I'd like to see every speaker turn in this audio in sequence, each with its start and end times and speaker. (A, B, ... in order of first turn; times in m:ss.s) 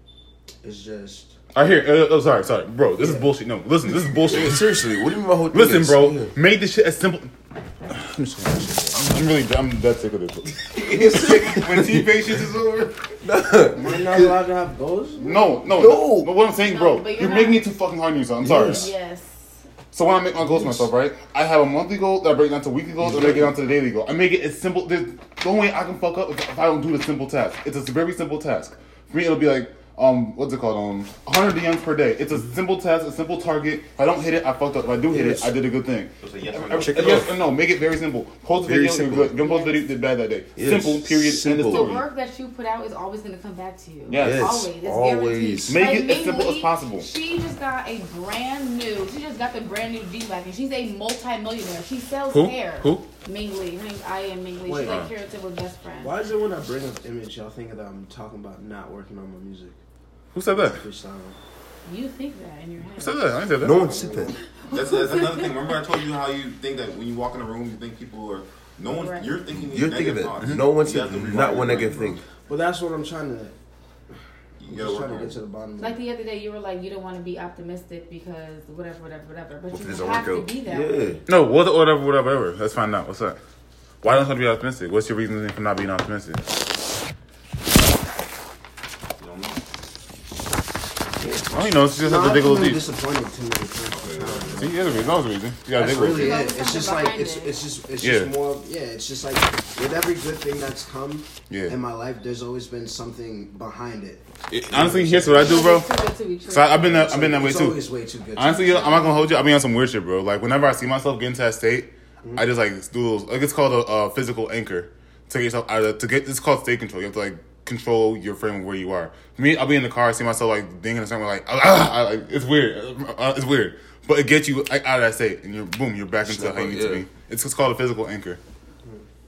0:00.6-0:01.4 A
0:01.5-0:04.8 B
0:03.0-0:03.3 A
0:04.2-0:06.3 C
0:05.5-0:07.3 B
0:07.9-0:13.1 B
0:10.7-0:12.1 C
0:13.2-0:14.3 C
0:13.7-0:15.6 A
0:15.2-0:18.9 B
0:15.7-0:16.3 C
0:16.4-0:17.7 D
0:18.4-0:18.9 C
0:18.6-0:19.6 D
0:19.9-0:42.0 B
0:20.5-0:20.8 C
0:23.0-0:23.5 C
0:35.1-0:35.5 C
0:36.2-0:37.3 E
0:36.7-0:37.3 C
0:38.5-0:39.4 C
0:39.4-0:39.9 D
0:40.6-0:41.9 C
0:41.6-0:56.2 D
0:44.1-0:44.6 B
0:44.1-0:45.8 C
0:45.7-0:47.1 B
0:52.3-0:53.1 B
0:54.7-0:55.0 A
0:56.0-0:59.8 A
1:00.3-1:00.8 B
1:00.5-1:01.4 A
1:01.8-1:03.2 D
1:03.0-1:03.9 B
1:03.6-1:04.4 C
1:03.8-1:04.5 A
1:04.6-1:05.9 D
1:04.7-1:12.2 E
1:08.9-1:09.4 D
1:09.5-1:12.2 C
1:12.5-1:13.6 A
1:14.6-1:15.4 E
1:14.6-1:16.0 A
1:15.8-1:21.2 D
1:19.7-1:21.2 C
1:21.3-1:23.4 B
1:24.0-1:26.4 B
1:29.2-1:29.6 E
1:31.5-1:32.8 B
1:32.0-1:35.2 A
1:33.9-1:35.0 E
1:34.6-1:36.4 B
1:35.7-1:45.8 A
1:35.9-1:37.6 D
1:38.0-1:38.3 B
1:41.5-1:41.8 B
1:44.5-1:45.9 B
1:45.3-1:47.4 D
1:46.4-1:47.8 B
1:46.8-1:48.9 A
1:48.4-2:08.4 B
1:48.4-1:49.4 D
2:06.2-2:07.1 C